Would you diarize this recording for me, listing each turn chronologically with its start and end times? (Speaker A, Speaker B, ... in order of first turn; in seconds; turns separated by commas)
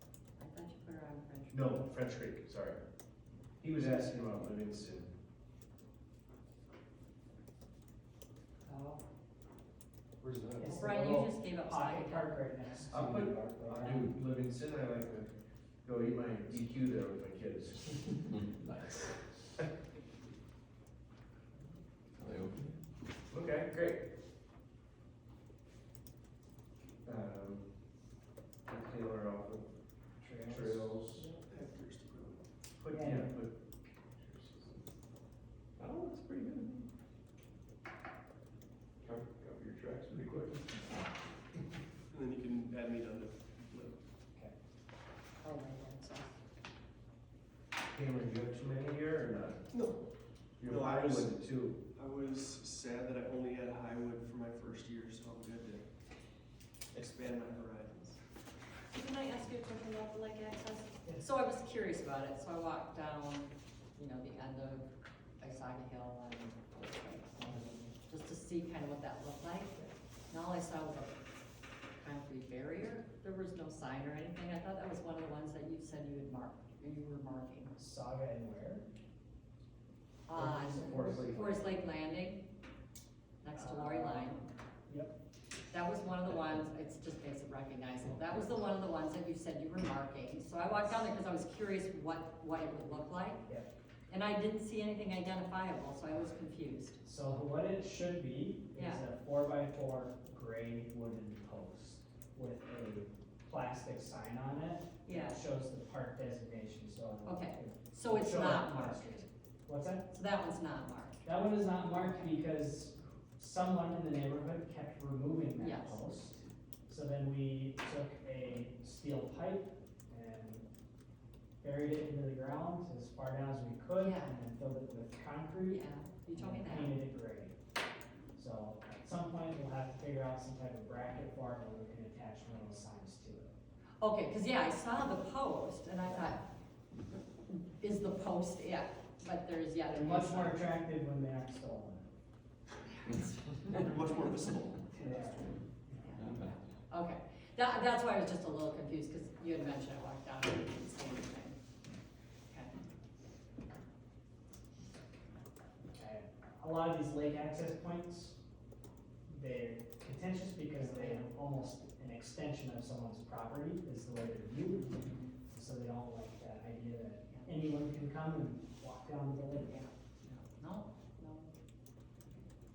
Speaker A: 0.4-1.9, Speaker B: 1.5-2.8, Speaker B: 3.6-5.1, Speaker A: 8.6-9.0, Speaker B: 10.2-10.8, Speaker C: 10.6-14.1, Speaker A: 10.7-12.4, Speaker B: 12.9-15.3, Speaker B: 15.8-18.3, Speaker D: 18.6-19.2, Speaker D: 22.2-22.8, Speaker B: 23.3-24.0, Speaker B: 27.0-27.7, Speaker B: 28.7-29.7, Speaker C: 30.2-31.2, Speaker B: 30.4-31.3, Speaker A: 31.2-31.4, Speaker E: 31.5-32.4, Speaker B: 32.8-33.6, Speaker C: 32.9-33.4, Speaker B: 34.2-34.8, Speaker D: 35.8-36.9, Speaker D: 39.0-40.8, Speaker B: 39.3-39.7, Speaker E: 42.1-44.0, Speaker A: 45.4-46.4, Speaker B: 47.9-49.6, Speaker E: 49.7-50.0, Speaker B: 50.6-51.8, Speaker E: 50.7-51.3, Speaker E: 52.0-55.8, Speaker E: 56.9-58.1, Speaker A: 58.9-64.9, Speaker A: 65.4-71.2, Speaker C: 67.4-68.0, Speaker A: 71.9-77.7, Speaker C: 77.8-78.9, Speaker A: 80.3-82.4, Speaker C: 80.4-81.3, Speaker B: 80.5-81.6, Speaker A: 83.4-84.4, Speaker C: 83.5-85.2, Speaker A: 85.7-93.4, Speaker A: 94.1-97.0, Speaker C: 97.0-110.1, Speaker A: 98.8-99.0, Speaker A: 105.1-105.4, Speaker A: 107.2-109.2, Speaker A: 110.1-111.2, Speaker C: 111.2-120.7, Speaker A: 115.6-116.0, Speaker C: 121.6-127.5, Speaker A: 124.0-124.3, Speaker A: 125.7-127.0, Speaker C: 128.4-133.5, Speaker A: 134.0-136.4, Speaker C: 136.1-136.4, Speaker A: 137.5-140.8, Speaker C: 139.9-142.1, Speaker E: 143.9-144.8, Speaker C: 144.9-146.4, Speaker A: 146.0-151.6, Speaker A: 152.5-152.7, Speaker C: 155.9-158.4, Speaker C: 159.3-169.8, Speaker A: 160.8-161.3, Speaker A: 169.7-171.5